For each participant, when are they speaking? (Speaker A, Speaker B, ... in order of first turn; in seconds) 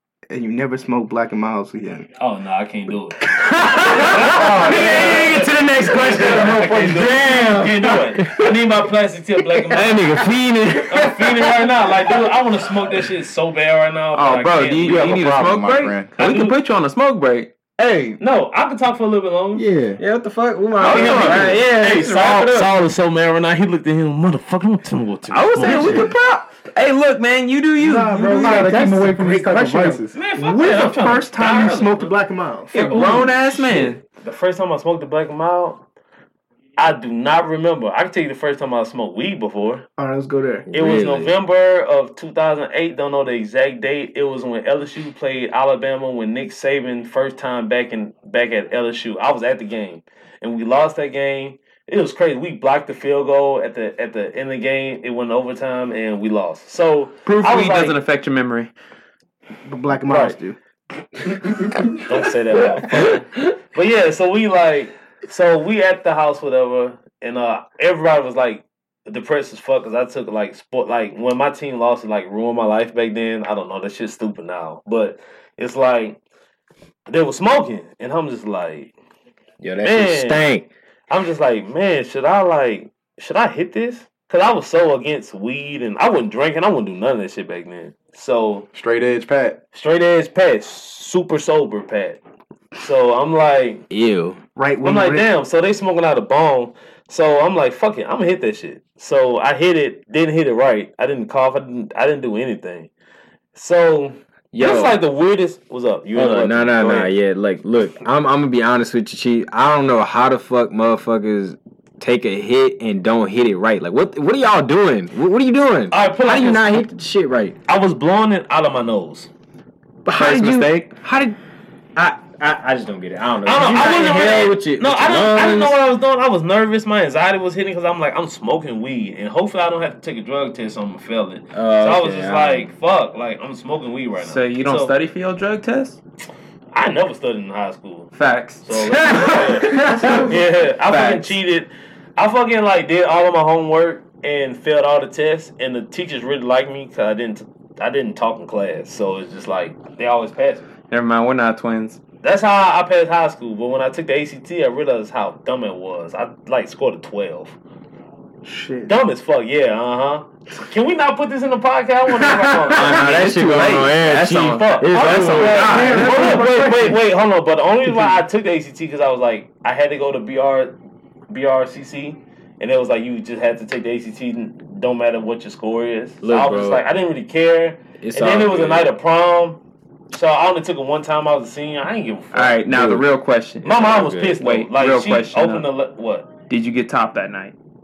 Speaker A: 0.3-2.1, 27.8-33.9, 40.0-40.7, 59.6-60.6, 94.6-95.3, 158.4-159.0, 165.4-167.0
Speaker B: 2.2-10.2, 10.8-15.1, 16.2-16.6, 18.2-19.6, 20.8-26.1, 30.1-32.2, 32.7-35.8, 36.8-39.9, 40.7-58.0, 60.0-60.4, 62.0-76.2, 77.1-78.9, 79.8-80.5, 81.1-88.7, 89.7-92.2, 92.8-93.8, 94.8-102.9, 103.5-107.1, 115.9-116.7, 117.7-119.3, 123.4-134.9, 136.7-138.1, 138.6-150.7, 152.2-157.6, 158.9-163.1, 164.3-170.8, 171.3-182.6, 183.6-186.3
Speaker C: 3.5-8.5, 9.7-11.8, 20.0-21.7, 40.6-41.3, 79.6-80.7, 93.9-94.4, 104.5-105.0, 106.1-117.6, 120.0-121.4, 122.0-125.8, 131.5-132.7, 139.8-140.2, 162.2-166.4, 176.2-176.9, 178.0-178.9, 182.7-183.1
Speaker D: 4.7-5.3, 14.1-17.5, 20.8-22.7, 25.3-28.9, 32.7-34.0, 57.3-58.7, 120.1-120.9, 134.2-136.0, 138.1-140.3, 140.9-141.4, 150.9-152.0, 162.7-166.4, 182.3-185.7, 186.5-187.6
Speaker E: 14.8-16.1, 17.8-18.2, 19.5-20.0, 28.3-30.2, 88.7-89.6